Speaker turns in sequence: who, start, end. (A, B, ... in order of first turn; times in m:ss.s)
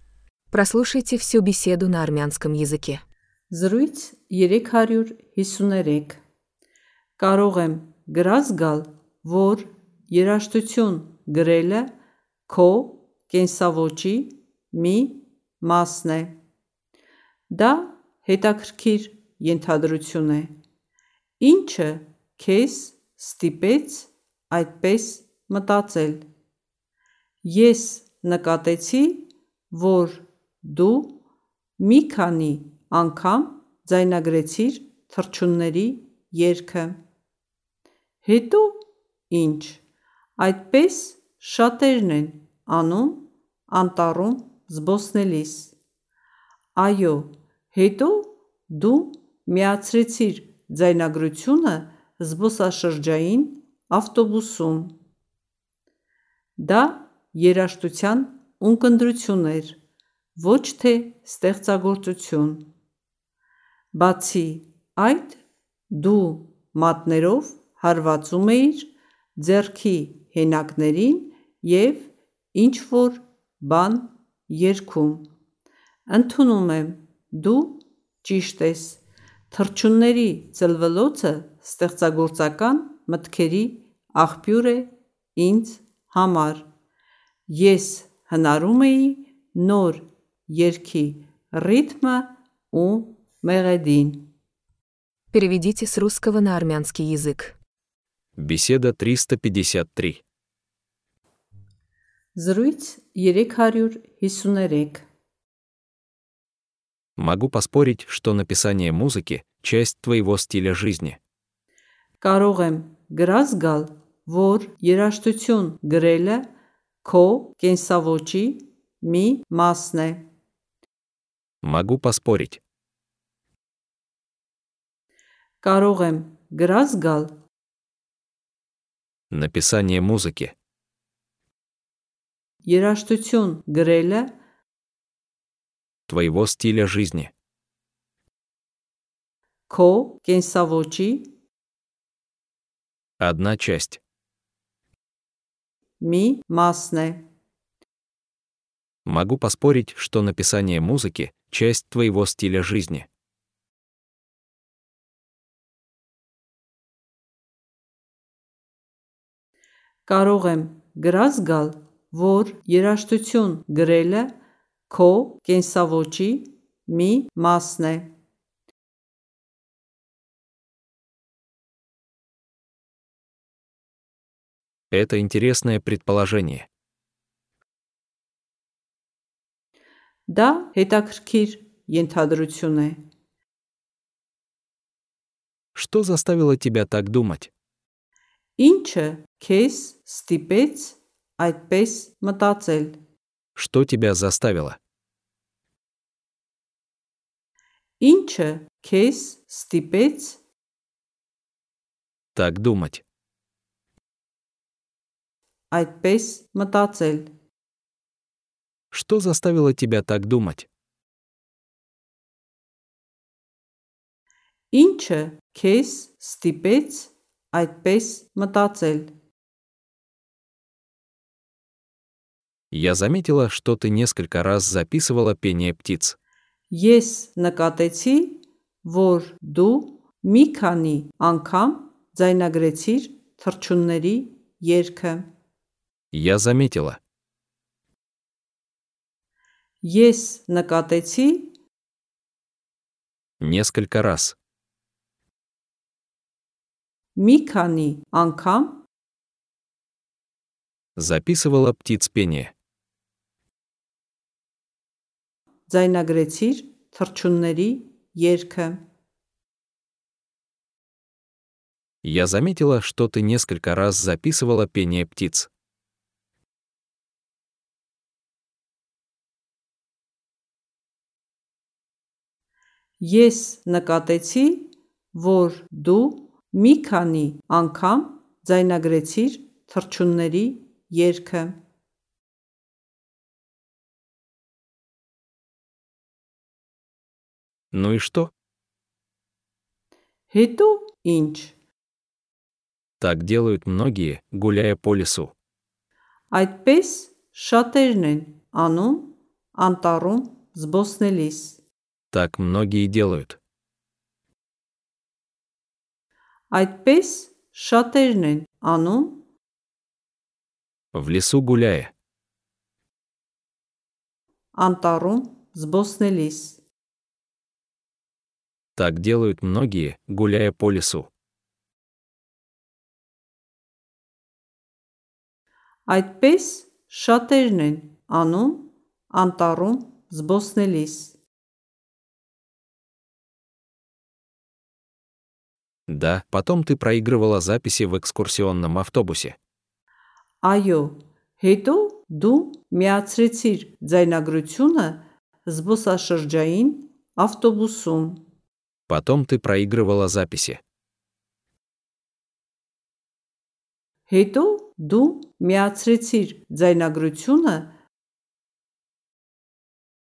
0:00.5-0:03.0 A
0:03.5-0:06.2 B
0:07.2-0:11.9 B
0:12.5-0:16.4 B
0:17.5-0:20.5 B
0:21.4-0:26.3 B
0:27.4-0:31.2 B
0:31.8-0:37.0 B
0:38.2-0:39.8 B
0:40.4-0:45.8 B
0:46.8-0:55.0 B
0:56.6-0:59.8 B
1:00.4-1:02.7 B
1:03.9-1:15.3 B
1:16.1-1:26.7 B
1:27.5-1:34.3 B
1:35.3-1:37.6 A
1:38.4-1:40.2 C
1:42.4-1:45.0 B
1:47.2-1:51.2 C
1:52.2-1:56.4 B
1:57.0-2:00.3 B
2:01.6-2:02.6 C
2:05.6-2:07.3 B
2:09.3-2:10.6 C
2:12.6-2:14.3 B
2:16.1-2:17.3 C
2:19.7-2:21.3 B
2:23.2-2:24.0 C
2:26.0-2:27.2 B
2:29.1-2:33.1 C
2:40.1-2:44.4 B
2:44.9-2:48.1 B
2:54.9-2:56.7 C
3:00.3-3:03.0 B
3:05.8-3:07.5 C
3:08.6-3:13.0 B
3:13.6-3:14.8 C
3:18.0-3:20.4 B
3:22.4-3:23.0 C
3:25.7-3:27.3 B
3:28.9-3:30.7 C
3:34.7-3:39.1 B
3:42.7-3:46.2 C
3:46.7-3:55.3 B
3:56.1-3:57.0 C
3:59.8-4:01.5 B
4:03.4-4:04.4 C
4:07.2-4:08.8 B
4:11.0-4:12.5 C
4:15.7-4:18.8 B
4:22.0-4:25.5 C
4:33.0-4:41.6 B
4:47.7-4:48.3 C
4:50.3-4:51.6 B
4:53.0-4:55.3 C
4:56.3-5:01.6 B
5:02.1-5:03.4 C
5:06.5-5:09.2 B
5:10.9-5:11.9 C
5:14.6-5:16.6 B
5:18.8-5:21.1 C
5:25.9-5:31.2 B
5:35.9-5:39.4 C
5:40.4-5:48.2 B
5:48.9-5:50.6 C
5:54.1-5:57.7 B